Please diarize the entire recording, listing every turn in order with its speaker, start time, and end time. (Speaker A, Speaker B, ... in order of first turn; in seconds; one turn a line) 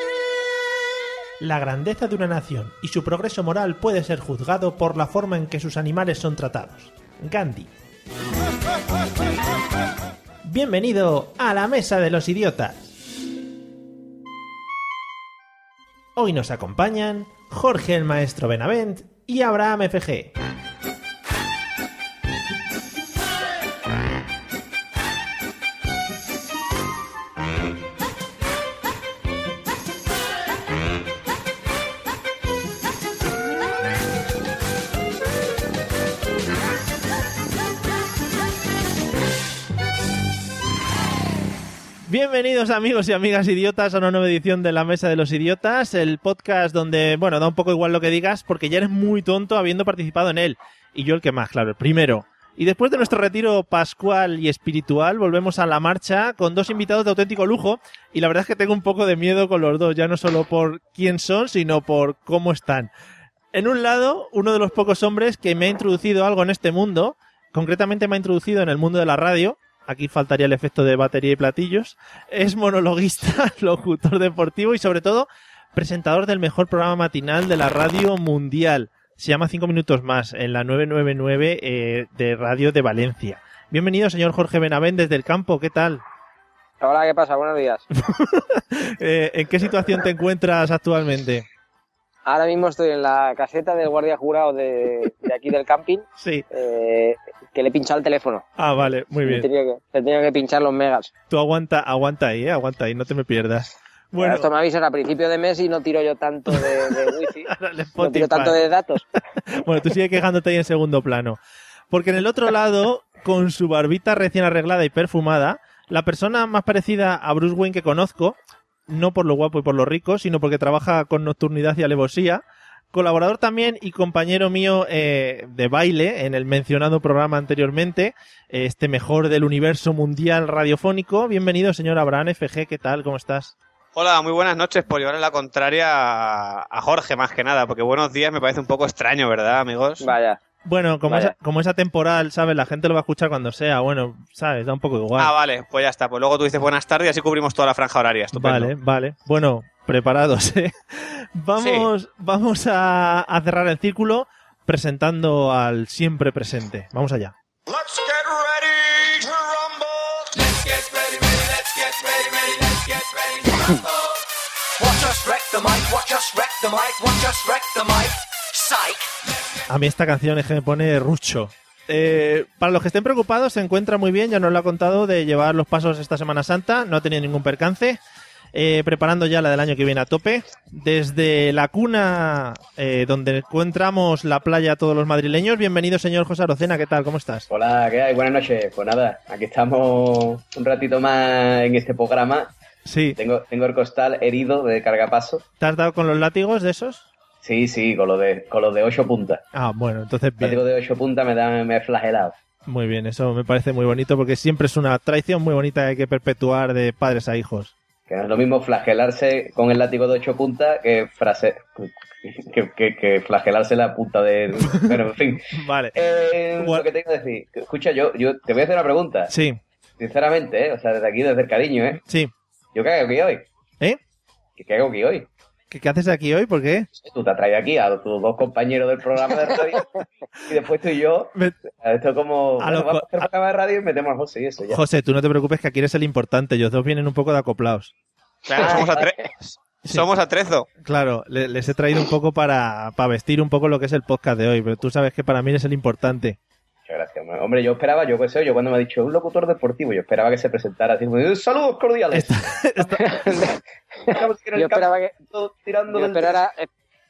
Speaker A: 1.4-7.7
Speaker A: 10.4-12.9
Speaker A: 16.1-20.3
Speaker A: 42.0-62.9
Speaker A: 63.5-86.0
Speaker B: 86.8-87.8
Speaker A: 87.9-91.5
Speaker B: 92.2-98.4
Speaker A: 96.2-96.4
Speaker A: 98.6-99.5
Speaker B: 99.2-101.1
Speaker A: 101.3-104.5
Speaker B: 104.2-109.0
Speaker A: 106.5-108.6
Speaker A: 109.4-111.4
Speaker A: 111.9-118.4
Speaker A: 118.9-133.5
Speaker C: 133.9-140.1
Speaker B: 140.0-140.4
Speaker A: 140.6-145.3
Speaker B: 141.1-141.3
Speaker C: 145.2-148.7
Speaker A: 148.3-157.3
Speaker C: 151.6-151.9
Speaker D: 157.7-164.1
Speaker D: 164.8-169.1
Speaker A: 169.7-178.0
Speaker A: 178.5-187.5
Speaker E: 187.5-192.5
Speaker A: 192.8-193.2
Speaker E: 193.2-195.4
Speaker A: 195.6-197.1
Speaker E: 197.4-199.4
Speaker A: 199.5-200.6
Speaker E: 200.4-202.3
Speaker A: 202.7-207.7
Speaker E: 208.1-219.3
Speaker A: 214.9-216.9
Speaker A: 219.3-219.6
Speaker E: 220.0-222.0
Speaker A: 222.0-222.3
Speaker E: 222.7-223.5
Speaker E: 224.6-225.3
Speaker A: 225.7-226.9
Speaker E: 227.0-234.8
Speaker A: 232.6-233.3
Speaker A: 234.7-237.9
Speaker C: 238.4-239.2
Speaker E: 238.6-239.1
Speaker C: 239.9-240.7
Speaker A: 240.8-246.4
Speaker E: 246.9-253.3
Speaker A: 252.1-253.1
Speaker B: 253.0-255.1
Speaker E: 254.1-256.4
Speaker B: 255.9-256.7